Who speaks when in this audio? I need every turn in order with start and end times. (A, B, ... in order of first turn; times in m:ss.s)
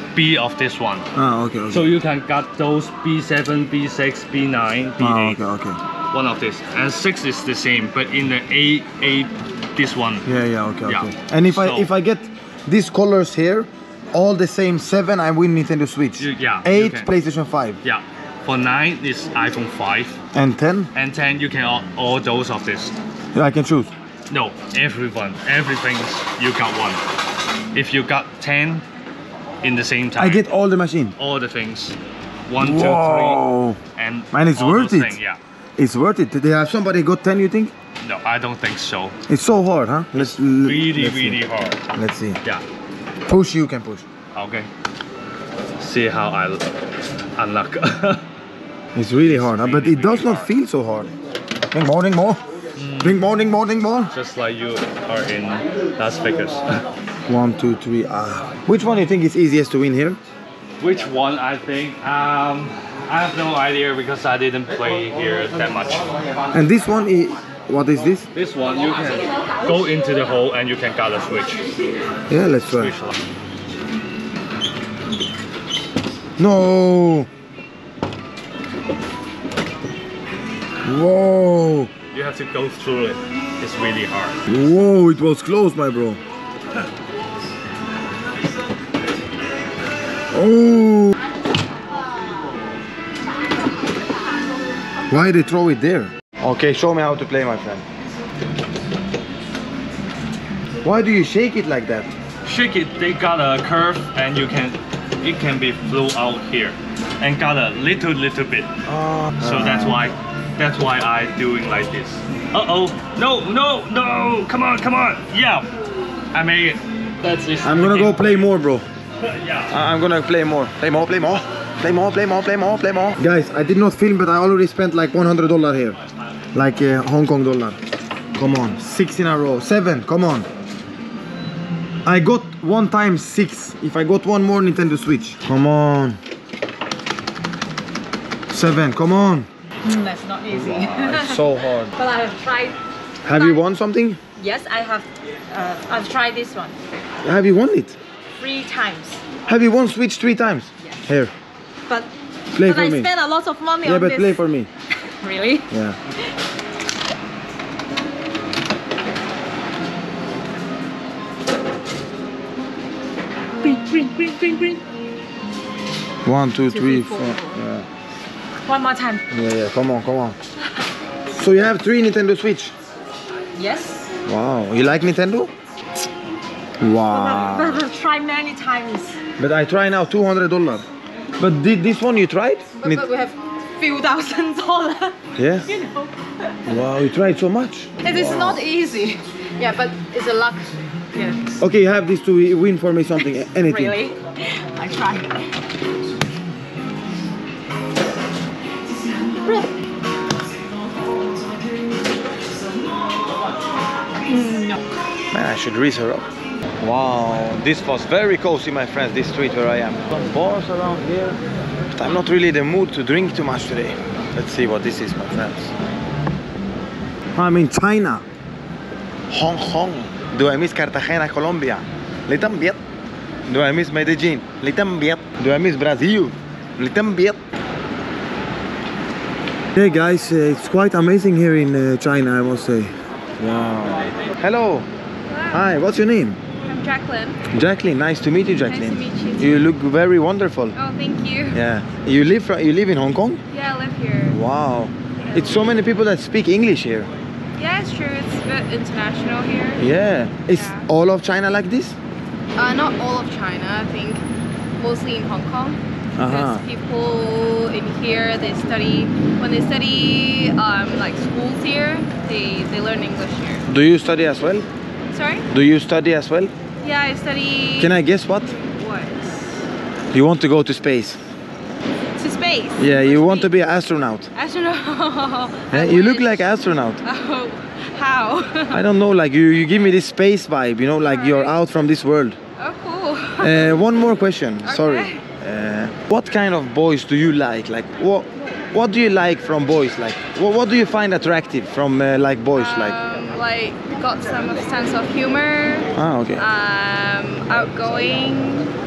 0:00.1-0:01.0 A
0:01.1-0:01.9 B
0:01.7-0:05.4 A
0:05.0-0:05.8 B
0:06.1-0:10.3 A
0:10.2-0:17.8 B
0:10.8-0:11.9 A
0:16.2-0:17.1 A
0:17.8-0:20.2 A
0:20.3-0:20.9 B
0:20.9-0:23.0 A
0:23.3-0:23.9 B
0:24.3-0:27.0 A
0:27.7-0:28.8 A
0:29.6-0:30.4 A
0:30.2-0:31.2 B
0:31.2-0:35.4 A
0:32.6-0:33.8 B
0:34.3-0:35.2 B
0:35.8-0:37.7 B
0:38.0-0:39.2 A
0:39.3-0:42.4 B
0:40.1-0:41.8 A
0:43.3-0:44.0 B
0:44.3-0:44.7 A
0:45.8-0:46.6 A
0:47.4-0:48.2 A
0:48.9-0:51.1 B
0:49.2-0:50.5 A
0:51.7-0:52.4 B
0:52.8-0:53.2 A
0:53.0-0:54.1 B
0:54.1-0:56.8 A
0:57.3-1:00.2 B
1:00.8-1:06.4 A
1:06.5-1:08.3 B
1:08.3-1:11.6 A
1:12.3-1:12.9 B
1:12.7-1:13.2 A
1:16.4-1:17.3 B
1:20.8-1:21.9 B
1:22.1-1:24.4 A
1:24.5-1:26.2 B
1:30.3-1:31.2 B
1:35.1-1:37.8 B
1:40.8-1:42.1 B
1:42.4-1:48.7 A
1:48.9-1:50.0 B
1:49.4-1:55.7 A
1:56.3-1:58.4 A
1:57.6-1:58.8 B
1:59.2-1:59.7 A
1:59.7-2:06.0 B
2:06.5-2:07.8 B
2:08.3-2:10.5 B
2:12.0-2:16.2 B
2:18.5-2:19.5 B
2:19.8-2:21.4 C
2:20.5-2:21.9 B
2:22.0-2:22.8 C
2:23.2-2:24.2 B
2:23.3-2:23.6 C
2:24.4-2:26.8 C
2:27.2-2:28.0 B
2:28.4-2:29.2 C
2:29.5-2:31.3 B
2:32.5-2:33.1 B
2:32.6-2:34.4 C
2:33.8-2:34.7 B
2:35.2-2:35.7 C
2:35.7-2:36.0 B
2:43.6-2:44.8 C
2:46.2-2:47.9 B
2:46.7-2:47.6 C
2:48.6-2:49.2 C
2:49.3-2:50.4 B
2:51.3-2:52.7 B
2:53.5-2:54.1 C
2:54.2-2:55.5 B
2:56.8-2:57.9 B
2:57.1-2:59.2 C
2:59.4-3:00.9 B
3:01.4-3:03.1 B
3:02.8-3:05.1 C
3:05.4-3:05.7 B
3:05.7-3:06.0 C
3:06.6-3:08.6 B
3:08.0-3:11.4 C
3:11.6-3:14.0 B
3:13.6-3:15.5 C
3:24.3-3:24.6 C
3:25.3-3:26.3 B
3:26.8-3:31.4 B
3:31.9-3:35.7 B
3:37.3-3:38.2 B
3:39.3-3:42.8 B
3:43.5-3:47.4 B
3:49.7-3:54.9 B
3:55.3-3:55.7 D
3:55.5-3:56.4 B
3:56.6-3:57.4 D
3:57.5-4:00.7 B
3:58.6-3:59.6 D
4:00.7-4:01.6 D
4:01.5-4:03.4 B
4:03.5-4:04.4 D
4:04.3-4:07.1 B
4:05.3-4:05.8 D
4:07.6-4:09.8 D
4:09.8-4:12.0 B
4:10.5-4:10.8 D
4:12.6-4:14.2 D
4:14.8-4:23.6 D
4:16.2-4:16.6 B
4:23.7-4:24.7 B
4:25.1-4:25.5 D
4:25.5-4:26.5 B
4:26.8-4:29.6 D
4:27.8-4:28.5 B
4:30.1-4:31.2 B
4:32.2-4:33.6 D
4:32.8-4:34.3 B
4:34.3-4:36.5 D
4:35.7-4:37.0 B
4:37.0-4:38.8 D
4:38.7-4:42.4 B
4:41.0-4:41.5 D
4:42.6-4:43.8 D
4:43.4-4:53.0 B
4:44.6-4:45.2 D
4:52.5-4:58.7 D
4:56.0-4:56.4 B